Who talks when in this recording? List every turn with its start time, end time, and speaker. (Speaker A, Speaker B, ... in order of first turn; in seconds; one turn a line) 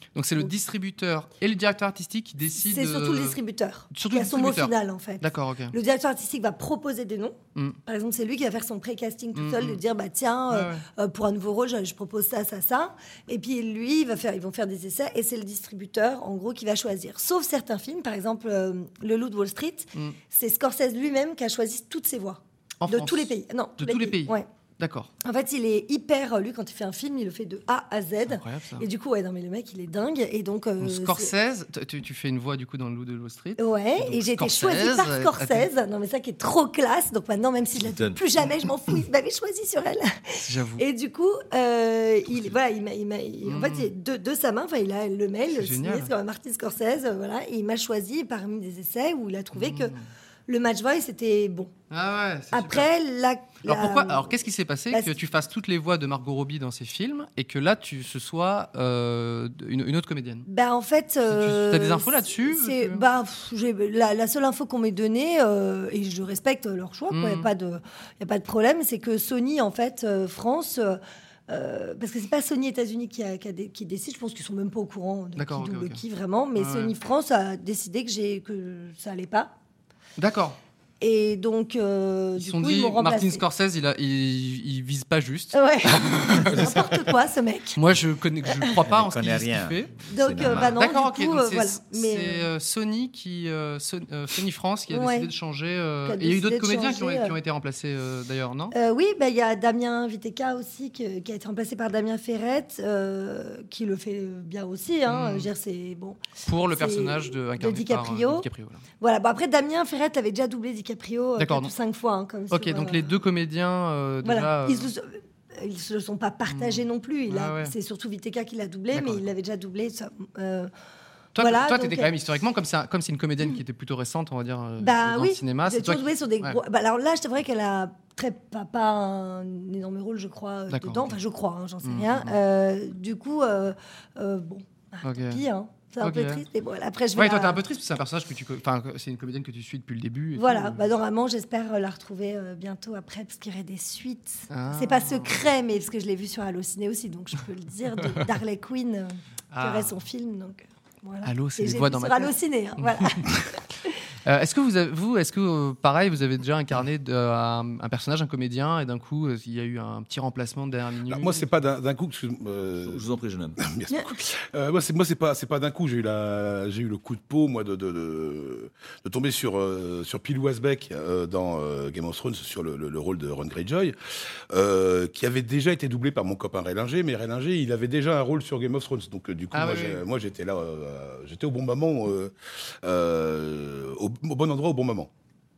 Speaker A: 0.1-3.4
Speaker B: 2.6-24.5
Speaker A: 3.9-5.8
Speaker A: 9.3-9.8
Speaker A: 10.5-10.8
Speaker A: 22.8-25.1
Speaker B: 25.2-31.3
Speaker A: 28.3-28.9
Speaker A: 30.8-35.7
Speaker B: 33.6-50.0
Speaker C: 37.8-38.2
Speaker A: 40.4-40.8
Speaker A: 43.5-43.9
Speaker A: 45.6-46.1
Speaker A: 49.5-50.1
Speaker B: 50.5-51.7
Speaker A: 51.9-52.9
Speaker B: 52.5-54.3
Speaker A: 53.6-60.5
Speaker B: 60.5-79.5
Speaker A: 61.3-63.0
Speaker A: 67.1-67.5
Speaker A: 75.4-76.0
Speaker A: 76.6-76.9
Speaker A: 80.2-80.6
Speaker B: 81.0-83.4
Speaker A: 82.4-86.9
Speaker B: 85.5-87.8
Speaker A: 87.8-98.8
Speaker C: 88.8-90.8
Speaker B: 90.1-92.5
Speaker B: 94.9-95.3
Speaker B: 96.1-97.3
Speaker B: 98.7-108.5
Speaker A: 105.1-105.5
Speaker A: 106.5-108.8
Speaker B: 109.0-113.1
Speaker A: 111.4-111.7
Speaker A: 112.5-114.9
Speaker B: 114.2-120.7
Speaker A: 116.5-117.7
Speaker A: 118.9-119.2
Speaker A: 121.3-126.6
Speaker B: 121.4-122.1
Speaker B: 124.8-137.6
Speaker A: 130.7-131.2
Speaker A: 131.8-132.4
Speaker A: 135.0-135.4
Speaker A: 136.0-136.4
Speaker A: 137.2-140.9
Speaker B: 140.3-153.6
Speaker A: 144.5-145.4
Speaker A: 149.5-150.0
Speaker A: 151.2-153.3
Speaker A: 154.2-161.5
Speaker D: 161.1-163.0
Speaker C: 162.8-163.6
Speaker D: 163.6-173.9
Speaker D: 174.5-185.1
Speaker A: 179.5-180.1